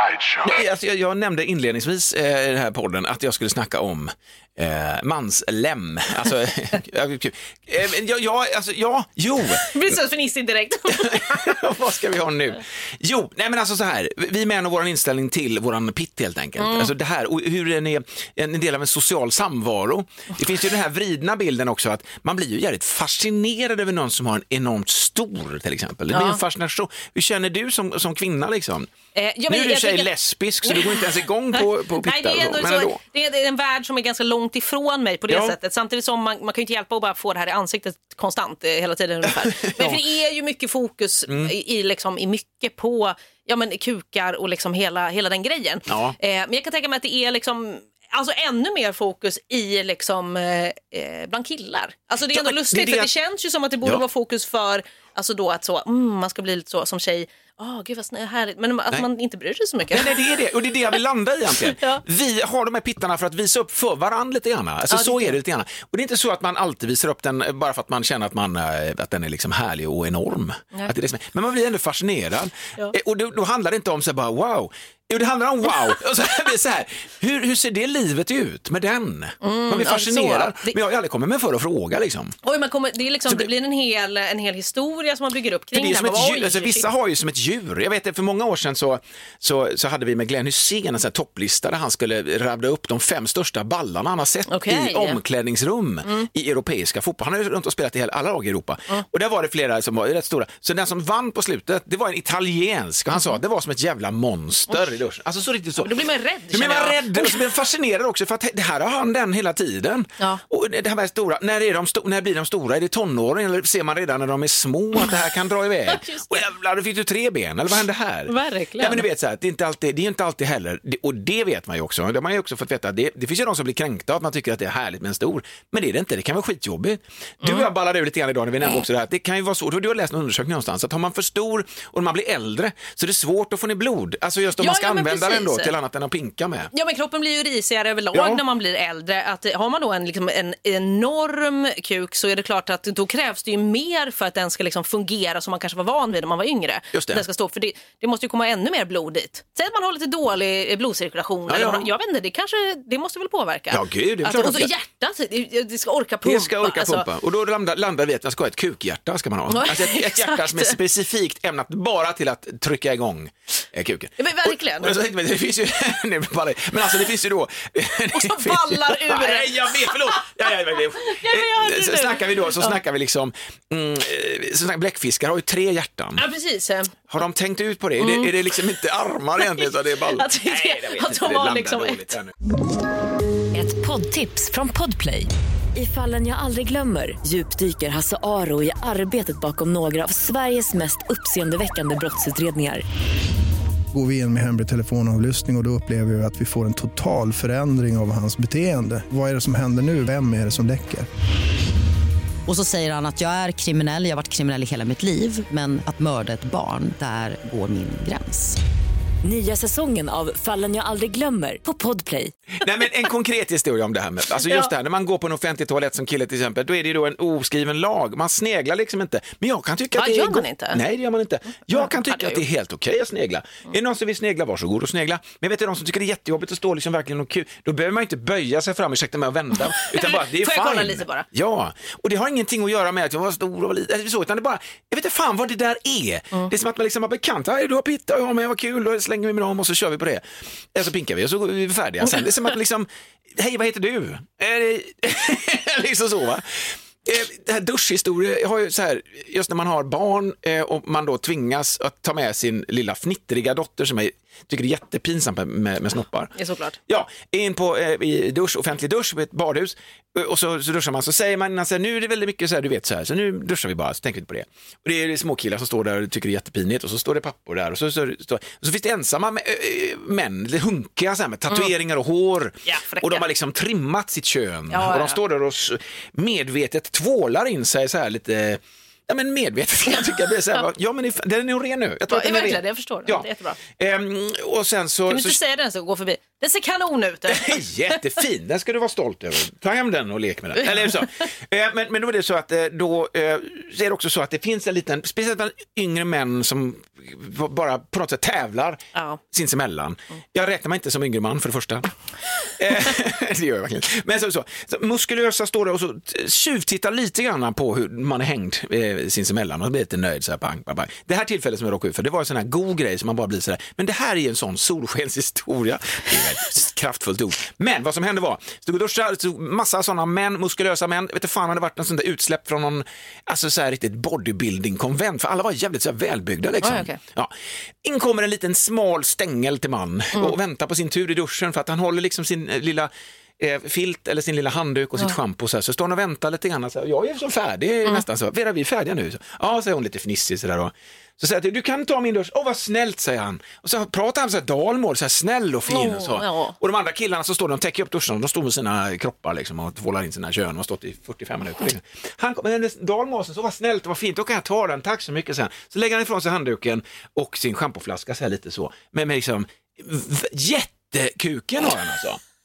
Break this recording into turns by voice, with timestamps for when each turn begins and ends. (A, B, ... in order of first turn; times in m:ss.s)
0:00.4-0:10.0 A
0:09.5-0:11.6 B
0:10.9-0:28.9 A
0:16.6-0:16.9 B
0:26.1-0:26.4 B
0:29.2-0:30.1 B
0:29.5-0:33.0 A
0:30.6-1:00.2 B
0:35.3-0:35.6 A
0:45.9-0:46.2 A
0:52.3-0:53.1 A
0:59.9-1:22.4 A
1:01.6-1:02.0 B
1:04.9-1:05.4 B
1:19.4-1:20.8 B
1:22.4-1:26.9 B
1:25.7-1:46.0 A
1:34.5-1:35.2 B
1:45.8-1:47.4 B
1:46.5-2:16.7 A
1:55.9-1:56.4 B
1:58.3-1:59.0 B
2:07.4-2:07.7 B
2:14.6-2:15.7 B
2:16.7-2:37.1 B
2:18.1-2:18.4 A
2:26.9-2:27.2 A
2:31.5-2:31.9 A
2:33.7-2:34.7 A
2:36.2-2:56.2 A
2:39.5-2:40.8 B
2:44.2-2:45.0 B
2:48.1-2:50.3 B
2:50.9-2:52.8 B
2:56.2-2:57.0 B
2:57.1-3:02.3 A
2:58.0-2:58.3 B
2:59.4-3:02.2 B
3:03.5-3:12.8 C
3:13.9-3:21.1 D
3:22.5-3:28.6 E
3:29.2-3:32.3 C
3:32.6-4:06.4 A
3:34.4-3:34.7 B
3:40.0-3:40.8 B
3:41.7-3:42.4 B
3:49.6-3:51.3 B
4:07.0-4:16.3 A
4:16.4-4:16.8 B
4:16.9-4:45.4 A
4:32.7-4:33.3 B
4:34.7-4:35.2 B
4:42.1-4:43.6 B
4:45.1-4:47.6 B
4:47.3-4:58.8 A
4:58.9-4:59.2 B
4:59.3-5:01.9 A
5:02.6-5:27.3 A
5:26.6-5:27.0 B
5:27.8-6:02.2 A
5:45.7-5:46.6 B